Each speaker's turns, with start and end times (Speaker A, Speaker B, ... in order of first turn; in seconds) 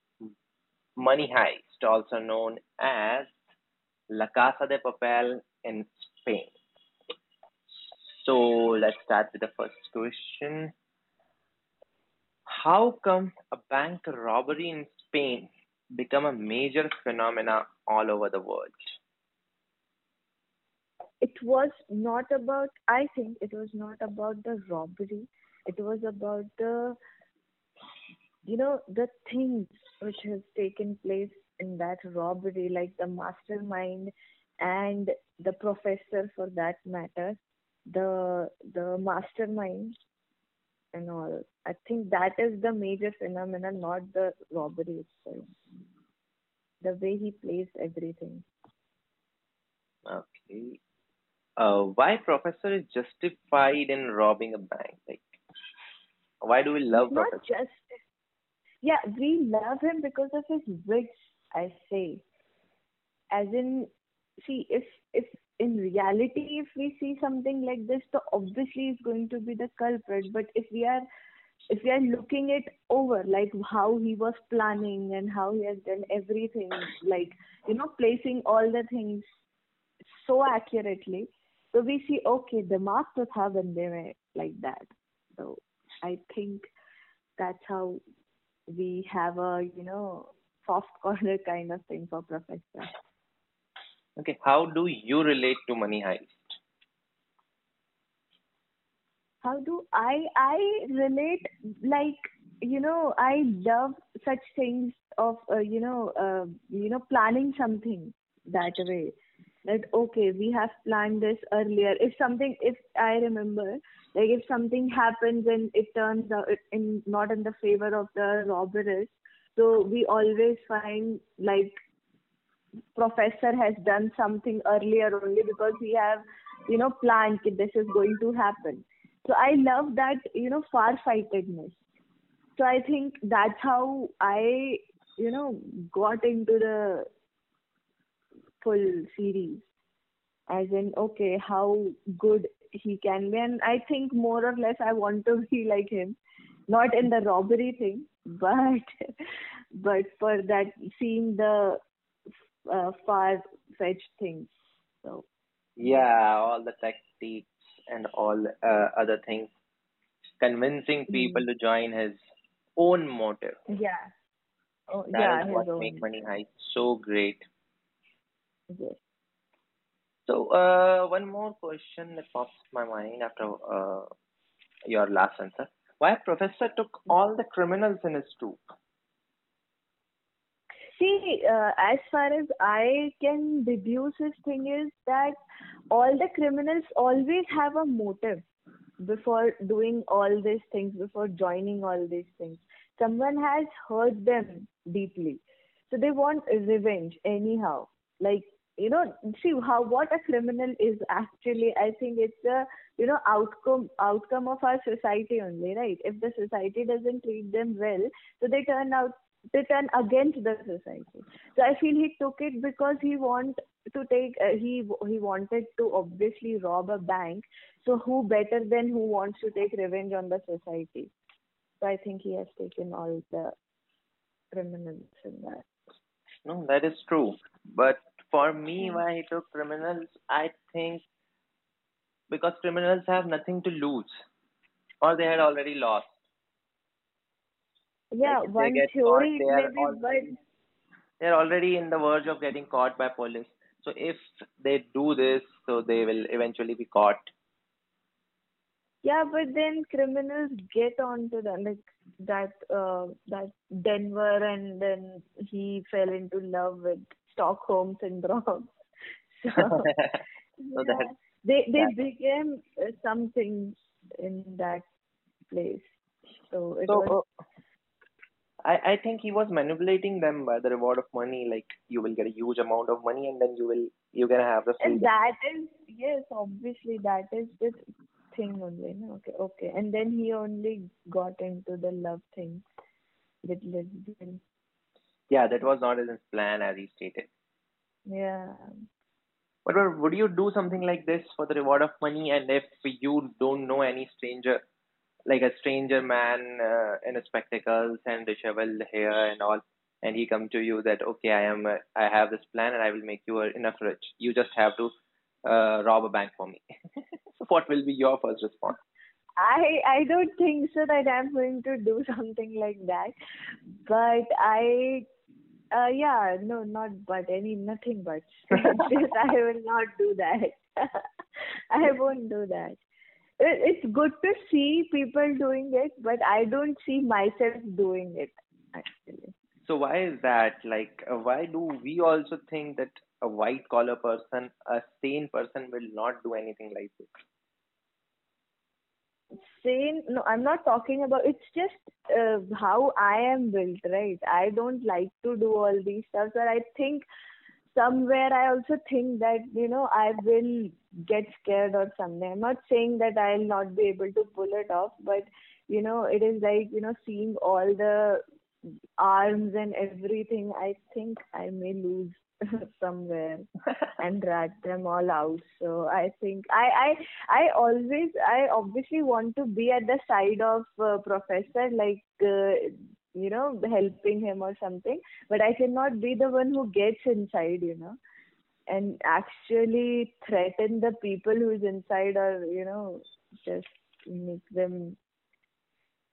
Speaker A: 1.0-3.4, 4.1-6.5, 8.1-10.7, 12.5-19.0, 50.1-50.8, 51.6-55.4, 56.4-57.5, 94.2-96.6, 155.8-159.5, 160.4-162.2, 162.8-163.6, 165.1-167.4, 170.3-174.1, 174.9-178.6, 226.4-231.0, 232.3-234.2, 235.0-236.2, 238.2-240.3, 241.2-247.3, 259.6-261.1, 266.9-267.2, 268.6-275.1, 285.3-287.3, 289.7-294.6, 295.3-304.9, 305.4-306.6, 307.4-308.8, 318.5-318.9, 329.6-337.1
Speaker B: 21.2-27.0, 28.4-40.0, 40.9-45.5, 46.8-48.5, 56.9-57.9, 58.8-62.2, 63.3-71.0, 71.7-79.2, 80.1-86.7, 87.4-88.0, 88.7-92.9, 99.4-109.1, 109.7-121.8, 123.0-131.8, 132.6-137.1, 138.6-139.6, 140.5-146.2, 146.7-148.9, 149.8-151.8, 152.7-154.5, 161.1-161.4, 163.7-164.1, 164.9-166.1, 168.7-169.0, 180.9-185.3, 185.9-188.4, 189.0-221.1, 221.8-223.5, 224.5-225.6, 238.1-240.3, 249.0-258.7, 259.4-259.9, 260.6-264.9, 265.5-265.9, 266.5-267.2, 274.8-277.8, 278.3-282.6, 283.4-284.4, 288.1-288.7, 309.4-313.1, 313.8-315.1, 315.7-321.0, 321.7-322.8, 323.4-329.3, 339.3-347.1, 347.7-358.2, 359.0-363.5, 364.0-378.0, 378.7-385.0